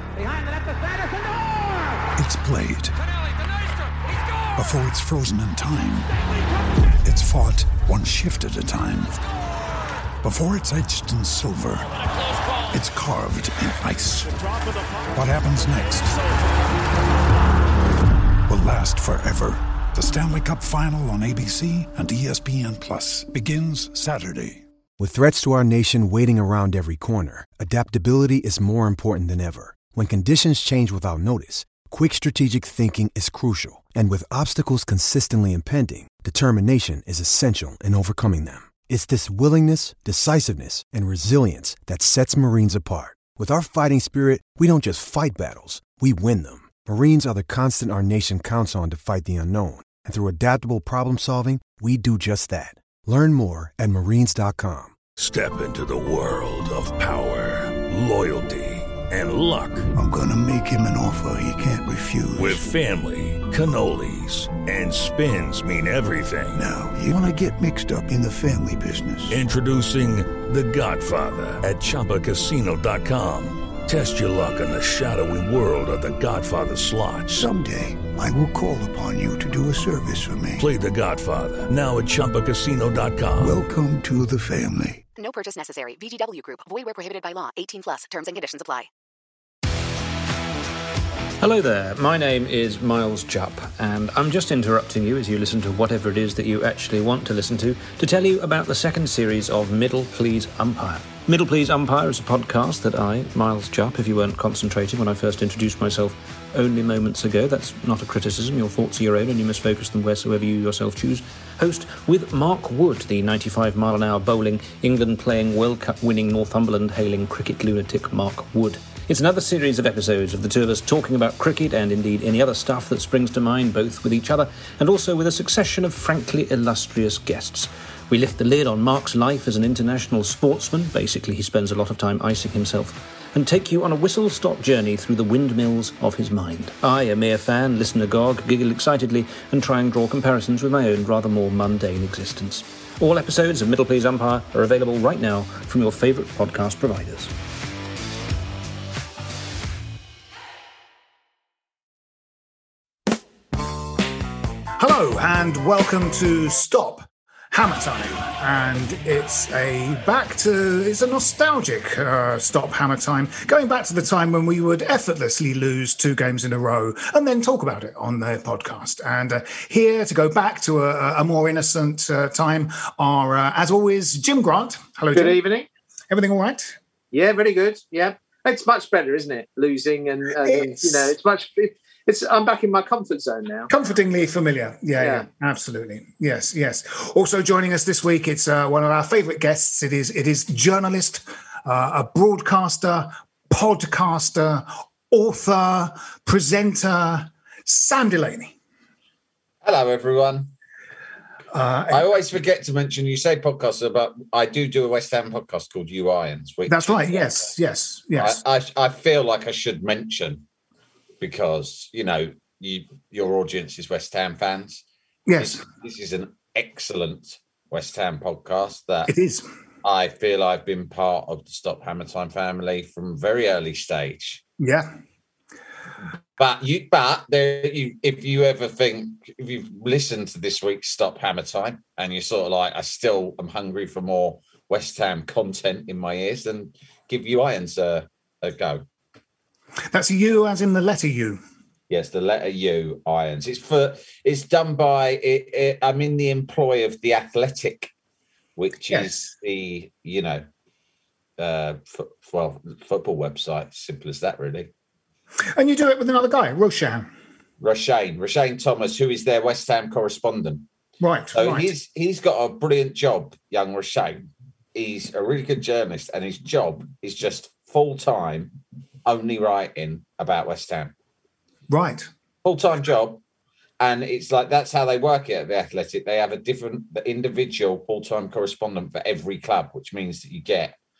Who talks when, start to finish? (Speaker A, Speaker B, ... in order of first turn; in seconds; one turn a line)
Speaker A: 2.2-3.0
Speaker A: 4.5-6.1
Speaker A: 7.0-9.2
Speaker A: 10.2-12.0
Speaker A: 12.7-14.5
Speaker A: 15.1-16.3
Speaker A: 18.5-24.6
Speaker B: 25.0-55.0
Speaker C: 55.2-59.9
Speaker A: 60.0-62.6
Speaker C: 62.4-66.6
Speaker A: 66.5-69.4
Speaker C: 69.3-77.5
Speaker A: 77.3-80.7
Speaker C: 80.6-83.6
Speaker A: 83.4-85.0
Speaker D: 85.2-88.9
Speaker E: 91.4-147.3
Speaker F: 154.8-175.4
Speaker G: 175.1-175.7
Speaker F: 176.1-176.8
Speaker G: 177.1-183.7
Speaker F: 180.4-181.1
Speaker F: 183.7-198.5
Speaker G: 185.0-185.3
Speaker H: 199.6-200.5
Speaker F: 201.5-202.1
Speaker H: 201.9-207.3
Speaker F: 206.7-208.4
Speaker H: 208.2-210.4
Speaker H: 211.2-214.8
Speaker F: 215.3-215.6
Speaker H: 215.4-219.1
Speaker F: 219.1-219.4
Speaker H: 219.8-224.4
Speaker F: 224.6-224.9
Speaker H: 226.4-238.8
Speaker F: 239.9-241.4
Speaker H: 241.9-247.9
Speaker H: 248.6-250.4
Speaker H: 251.4-254.7
Speaker F: 255.6-257.1
Speaker H: 257.6-260.7
Speaker F: 261.0-261.7
Speaker H: 261.3-264.2
Speaker H: 264.7-270.9
Speaker F: 271.7-272.1
Speaker H: 272.4-273.2
Speaker H: 273.8-280.8